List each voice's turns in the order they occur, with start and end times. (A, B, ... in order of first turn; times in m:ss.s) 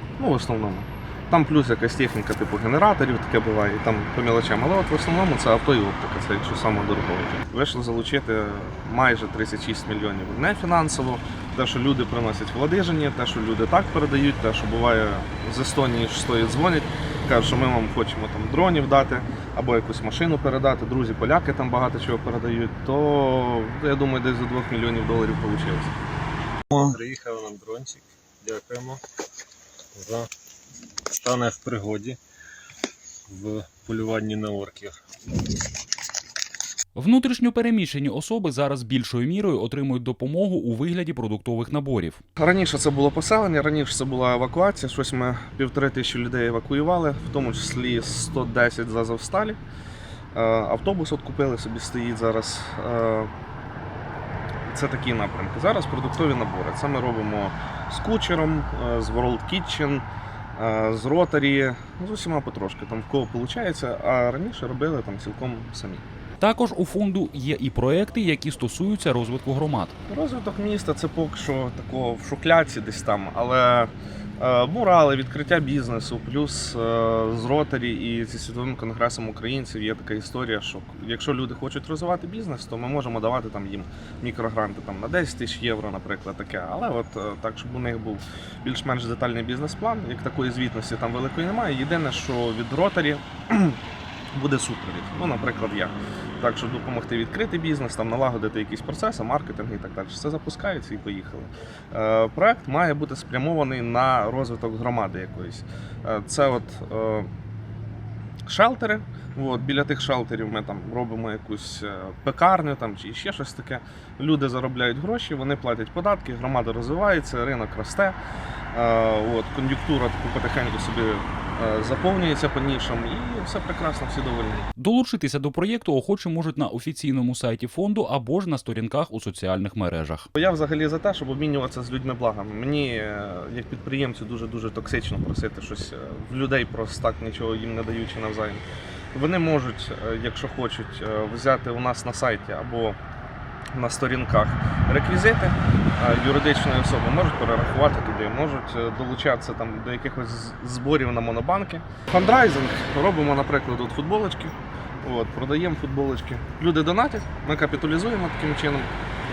0:00.2-0:25.9 A
0:26.8-0:29.0 B
0:29.9-0:30.3 B
0:31.1-0:32.2 B
0:33.3-0:35.0 B
0:37.0-0:42.2 C
0:42.4-0:49.6 A
0:50.3-0:53.3 A
0:54.7-1:06.0 A
1:06.4-1:09.9 C
1:10.1-1:33.8 A
1:34.3-1:47.3 A
1:48.5-1:58.2 A
1:58.7-2:04.6 A
2:04.8-2:10.3 C
2:10.4-2:23.0 A
2:23.7-2:38.9 A